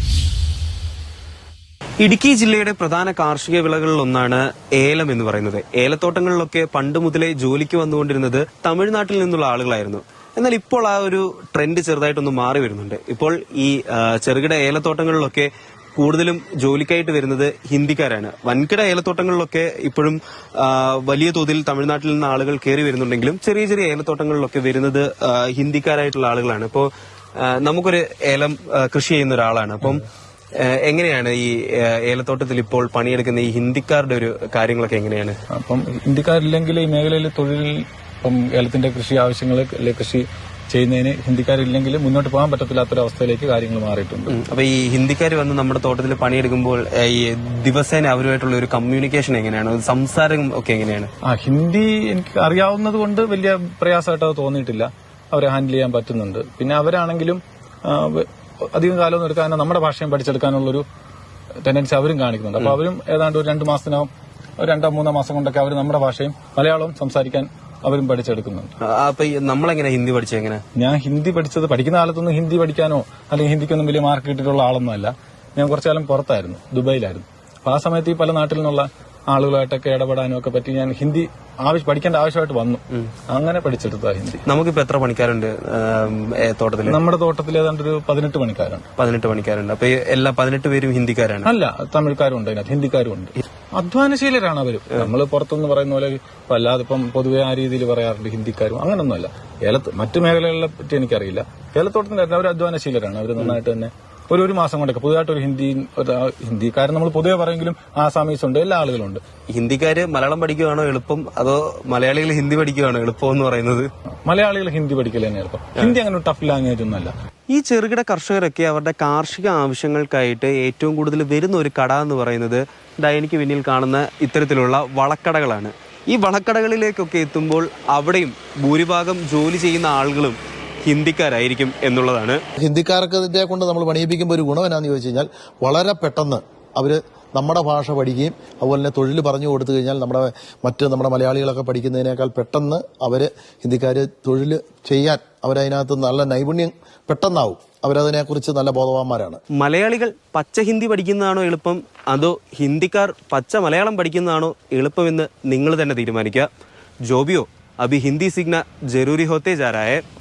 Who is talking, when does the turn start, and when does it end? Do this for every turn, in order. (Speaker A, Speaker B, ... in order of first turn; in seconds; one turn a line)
Speaker A: 2.0-30.1
Speaker A: 30.6-35.4
Speaker B: 35.5-44.4
Speaker A: 44.3-51.1
Speaker B: 51.2-60.9
Speaker B: 61.6-68.7
Speaker A: 68.8-70.6
Speaker B: 70.7-84.4
Speaker A: 84.5-87.0
Speaker B: 86.8-88.9
Speaker A: 89.0-91.5
Speaker B: 91.4-109.2
Speaker A: 109.5-113.9
Speaker B: 114.2-117.1
Speaker A: 117.5-132.4
Speaker C: 132.6-149.4
Speaker A: 149.5-156.5
Speaker A: 157.1-160.0